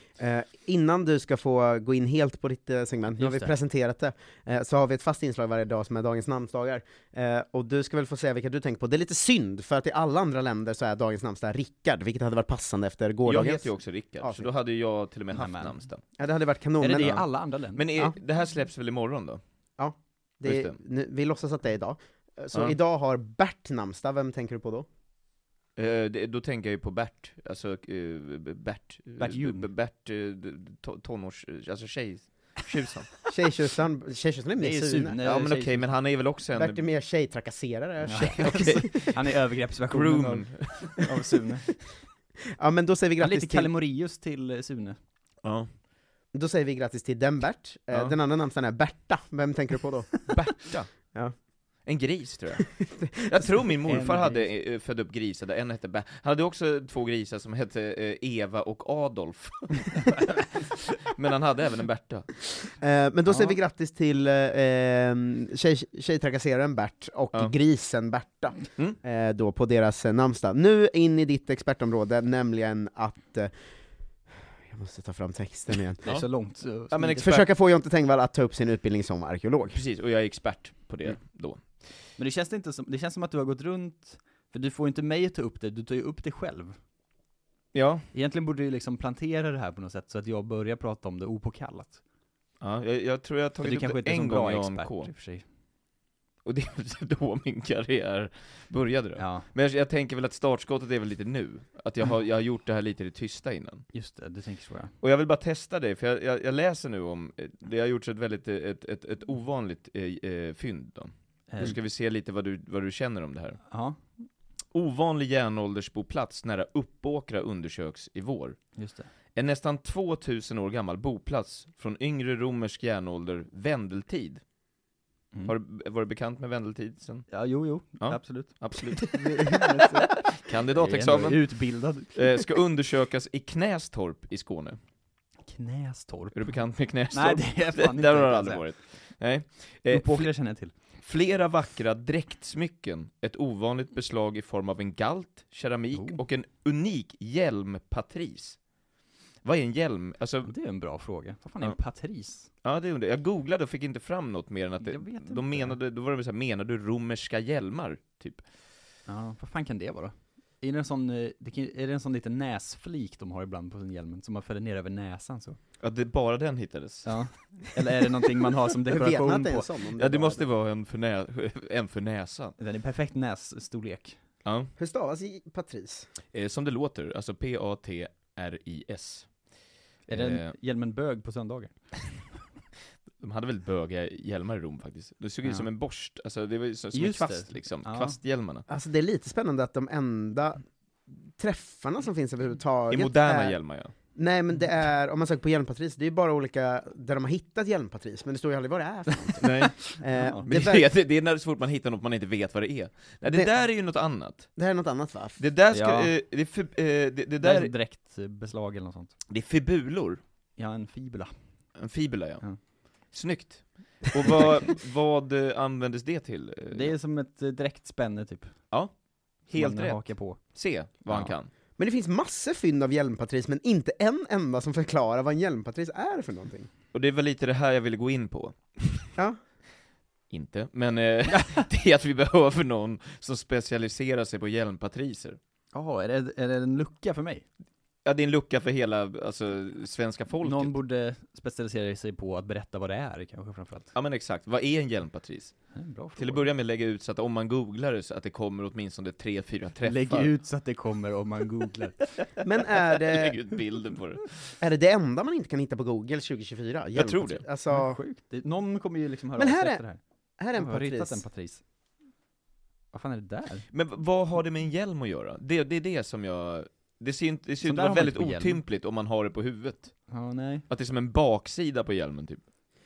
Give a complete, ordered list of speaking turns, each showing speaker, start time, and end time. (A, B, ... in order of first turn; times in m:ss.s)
0:00.2-0:14.5 A
0:03.2-0:03.5 B
0:13.2-0:16.0 C
0:15.3-0:15.8 B
0:16.2-0:17.2 A
0:16.8-0:17.9 B
0:17.0-0:19.4 C
0:19.8-0:24.8 A
0:20.4-0:20.8 C
0:25.8-0:33.1 C
0:29.2-0:29.7 B
0:33.3-0:35.2 A
0:34.6-0:35.9 B
0:35.2-0:36.8 C
0:36.5-0:38.9 A
0:38.0-0:41.6 B
0:38.2-0:39.1 C
0:39.9-0:41.3 C
0:42.6-0:43.7 A
0:43.2-0:45.0 B
0:45.4-0:45.7 C
0:46.3-0:50.2 A
0:50.3-0:50.9 C
0:51.8-1:02.4 C
0:53.8-0:54.5 B
1:02.8-1:13.5 A
1:03.3-1:03.6 B
1:14.7-1:16.0 A
1:16.0-1:17.2 B
1:16.9-1:17.4 C
1:17.2-1:19.8 A
1:19.7-1:21.8 C
1:22.2-1:26.8 B
1:27.7-1:28.1 C
1:28.1-1:32.0 B
1:32.6-1:35.1 C
1:33.6-1:35.4 B
1:36.4-1:43.8 C
1:39.2-1:39.5 B
1:43.9-1:44.9 B
1:45.0-1:53.6 C
1:51.5-1:51.8 B
1:53.7-1:54.2 B
1:54.7-1:58.6 C
1:58.8-1:59.1 B
1:59.3-2:04.4 C
2:05.4-2:07.3 C
2:07.3-2:12.4 B
2:08.0-2:11.6 C
2:12.1-2:14.8 C
2:15.4-2:18.7 B
2:16.3-2:20.3 C
2:19.9-2:20.7 B
2:21.0-2:28.6 C
2:25.9-2:26.2 B
2:29.4-2:30.5 C
2:30.4-2:32.5 B
2:32.6-2:38.5 C
2:34.8-2:35.8 B
2:39.0-2:45.6 B
2:45.8-2:47.2 C
2:47.0-2:49.7 B
2:48.9-2:50.4 A
2:50.0-2:52.5 C
2:52.6-2:54.2 B
2:54.4-2:54.7 C
2:54.8-2:56.1 A
2:56.3-2:59.3 C
3:00.1-3:02.2 B
3:00.1-3:00.5 C
3:03.2-3:08.6 C
3:05.4-3:05.7 B
3:06.9-3:08.2 B
3:08.7-3:10.6 A
3:11.2-3:13.6 A
3:12.9-3:13.9 C
3:14.1-3:20.8 A
3:19.3-3:20.4 B
3:19.4-3:19.8 C
3:20.4-3:24.5 C
3:24.6-3:25.4 A
3:25.4-3:27.7 C
3:25.7-3:26.1 B
3:27.4-3:29.2 B
3:29.3-3:30.2 C
3:30.6-3:31.3 B
3:31.8-3:32.4 C
3:33.1-3:37.0 C
3:36.7-3:38.5 B
3:39.4-3:41.5 C
3:39.5-3:40.4 B
3:41.1-3:41.3 B
3:41.8-3:46.7 A
3:46.9-3:49.1 C
3:50.3-3:55.4 C
3:55.7-3:57.5 B
3:58.0-4:00.7 C
4:00.4-4:03.9 B
4:03.9-4:10.3 C
4:05.7-4:06.5 B
4:09.8-4:12.0 B
4:12.4-4:13.4 A
4:12.9-4:14.5 C
4:14.6-4:18.0 A
4:16.9-4:17.4 C
4:17.7-4:20.0 B
4:19.4-4:19.8 A
4:20.4-4:21.2 A
4:20.5-4:21.6 B
4:22.9-4:23.6 B
4:23.7-4:29.9 C
4:27.6-4:28.6 B
4:30.1-4:30.6 B
4:30.7-4:32.4 C